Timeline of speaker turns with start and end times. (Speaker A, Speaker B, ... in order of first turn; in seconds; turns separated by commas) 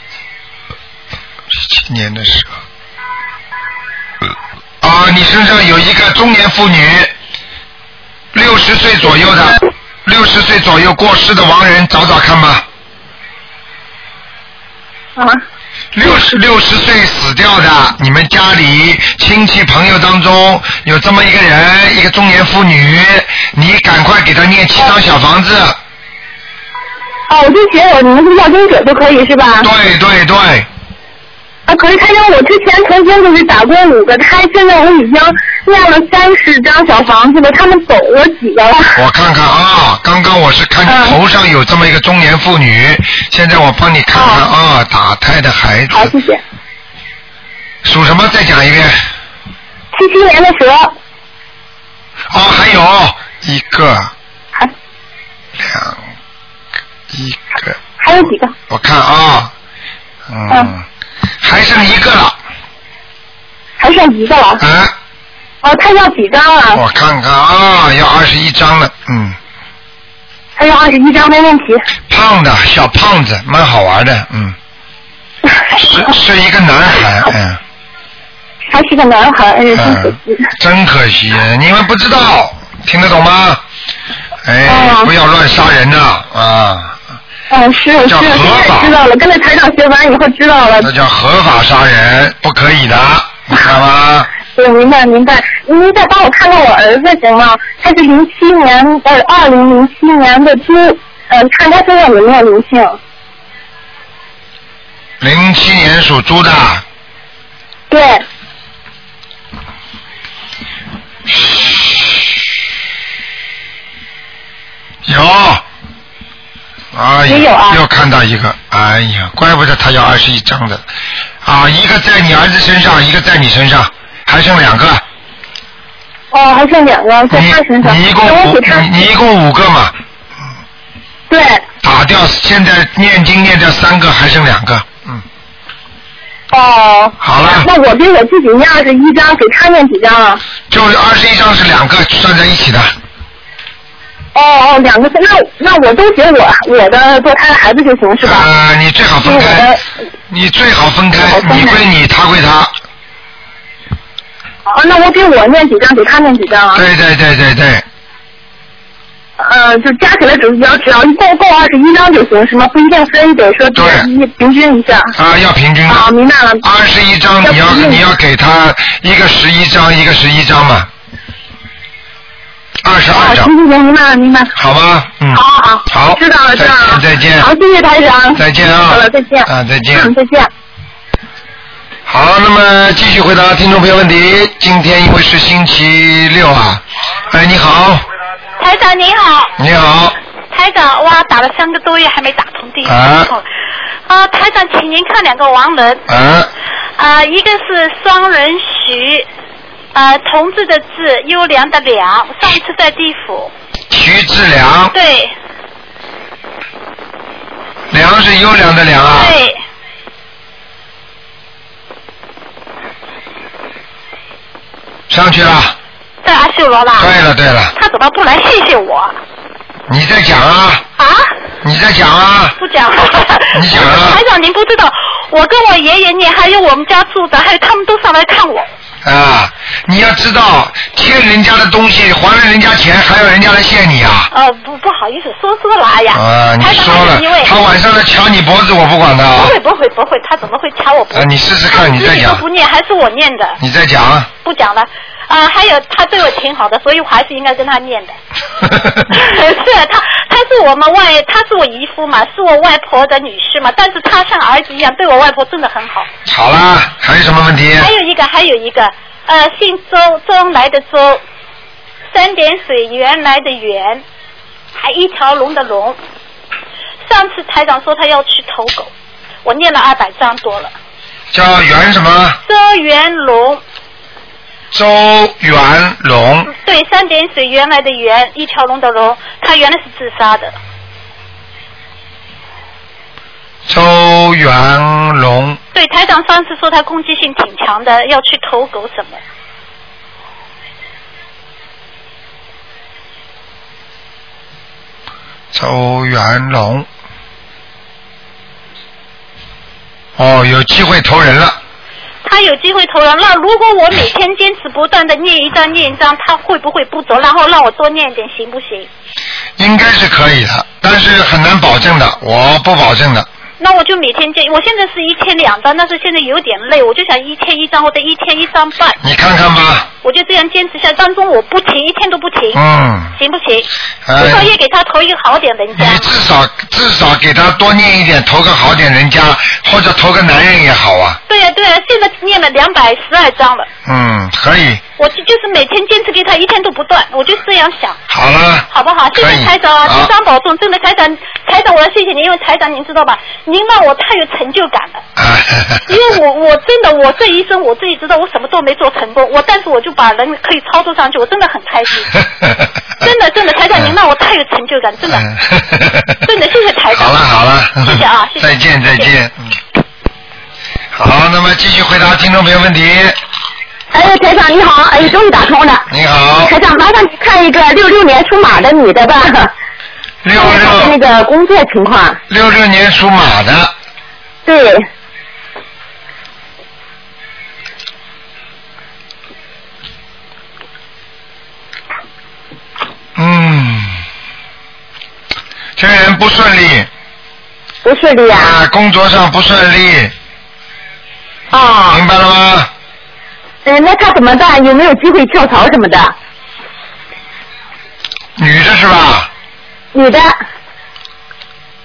Speaker A: 1.5-2.5, Speaker A: 4.8-7.1, Speaker A: 8.3-12.7, Speaker A: 15.9-25.8, Speaker B: 27.3-29.7, Speaker A: 29.6-30.7, Speaker B: 31.7-39.0, Speaker A: 39.0-46.1, Speaker B: 40.9-41.2, Speaker B: 44.1-44.4, Speaker B: 45.9-46.4, Speaker A: 47.8-49.0, Speaker B: 49.9-50.9, Speaker A: 52.3-54.1, Speaker A: 55.6-56.0, Speaker A: 57.1-57.8, Speaker B: 58.0-58.5, Speaker A: 58.7-59.5, Speaker A: 60.3-60.9, Speaker A: 61.4-62.4, Speaker B: 63.8-64.6, Speaker A: 64.6-64.9, Speaker B: 65.6-66.8, Speaker A: 66.7-69.4, Speaker B: 70.6-71.8, Speaker A: 72.1-74.6, Speaker A: 75.7-77.6, Speaker B: 78.7-80.5, Speaker A: 79.7-83.6, Speaker A: 84.5-87.0, Speaker B: 84.7-85.1, Speaker B: 87.5-90.9, Speaker A: 88.0-89.0, Speaker A: 90.8-94.3, Speaker B: 94.5-103.0, Speaker A: 105.2-106.8, Speaker B: 107.9-108.2, Speaker A: 115.1-115.6, Speaker A: 116.9-120.8, Speaker B: 117.3-117.8, Speaker A: 121.4-125.0, Speaker B: 126.3-128.9, Speaker A: 127.3-129.9, Speaker B: 131.3-131.6, Speaker A: 131.8-135.2, Speaker B: 136.5-140.4, Speaker A: 137.2-137.7, Speaker A: 140.7-142.9, Speaker B: 144.3-148.5, Speaker A: 148.2-149.8, Speaker B: 149.2-149.8, Speaker A: 150.3-152.7, Speaker B: 151.2-151.8, Speaker B: 154.7-156.8, Speaker A: 156.7-157.8, Speaker B: 159.4-165.1, Speaker A: 163.7-164.1, Speaker A: 165.2-166.1, Speaker B: 165.9-166.6, Speaker A: 166.6-170.9, Speaker B: 167.4-168.1, Speaker A: 172.8-173.5, Speaker B: 173.1-174.5, Speaker A: 174.6-177.5, Speaker B: 175.3-180.5, Speaker A: 178.3-180.1, Speaker A: 182.1-188.0, Speaker C: 188.6-189.5, Speaker A: 189.6-190.2, Speaker C: 190.5-193.4, Speaker A: 192.8-193.3, Speaker C: 194.1-196.0, Speaker A: 196.1-196.5, Speaker C: 197.0-199.3, Speaker C: 199.9-203.5, Speaker A: 203.9-204.9, Speaker C: 204.9-205.3, Speaker A: 207.9-209.4, Speaker C: 209.1-209.6, Speaker A: 215.1-215.8, Speaker C: 216.2-217.1, Speaker A: 217.0-217.7, Speaker C: 217.8-219.2, Speaker A: 219.9-220.8, Speaker C: 221.0-221.3, Speaker A: 221.6-222.6, Speaker C: 222.6-228.7, Speaker A: 223.5-224.2, Speaker A: 229.0-234.3, Speaker C: 234.3-237.5, Speaker A: 236.1-239.6, Speaker C: 239.3-243.6, Speaker A: 241.1-242.4, Speaker A: 243.6-244.3, Speaker C: 244.4-248.2, Speaker A: 248.7-249.1, Speaker C: 249.1-256.1, Speaker A: 256.3-257.9, Speaker C: 257.8-261.2, Speaker C: 262.1-264.0, Speaker C: 264.8-266.0, Speaker C: 267.1-268.9, Speaker C: 269.4-270.7, Speaker A: 271.3-272.4, Speaker C: 272.4-273.6, Speaker A: 274.7-276.5, Speaker C: 276.5-280.6, Speaker A: 283.7-285.6, Speaker C: 285.7-289.2, Speaker A: 295.5-296.9, Speaker A: 300.2-301.6, Speaker C: 302.2-308.9, Speaker A: 309.6-313.3, Speaker C: 313.6-319.0, Speaker A: 319.0-319.9, Speaker C: 320.0-322.6, Speaker A: 322.5-323.2, Speaker C: 323.1-326.1, Speaker A: 324.1-324.5, Speaker A: 325.8-331.2, Speaker C: 331.3-333.7, Speaker A: 333.9-334.8, Speaker C: 335.0-338.0, Speaker A: 338.1-340.1, Speaker C: 338.7-345.0, Speaker A: 345.2-346.1, Speaker C: 345.9-352.2, Speaker C: 353.0-355.3, Speaker A: 355.1-356.2, Speaker C: 356.2-357.3, Speaker A: 356.9-359.6, Speaker C: 357.8-359.1, Speaker A: 360.9-363.2, Speaker D: 363.9-365.8, Speaker A: 365.9-366.6, Speaker D: 366.5-369.5, Speaker A: 370.2-371.0, Speaker D: 370.4-372.2, Speaker A: 372.3-373.7, Speaker D: 374.5-374.8, Speaker A: 383.2-384.0, Speaker A: 385.8-386.9, Speaker D: 387.9-388.5, Speaker A: 388.3-390.1, Speaker D: 391.5-392.0, Speaker A: 391.9-392.7, Speaker D: 393.7-396.1, Speaker A: 398.4-399.3, Speaker D: 399.9-400.3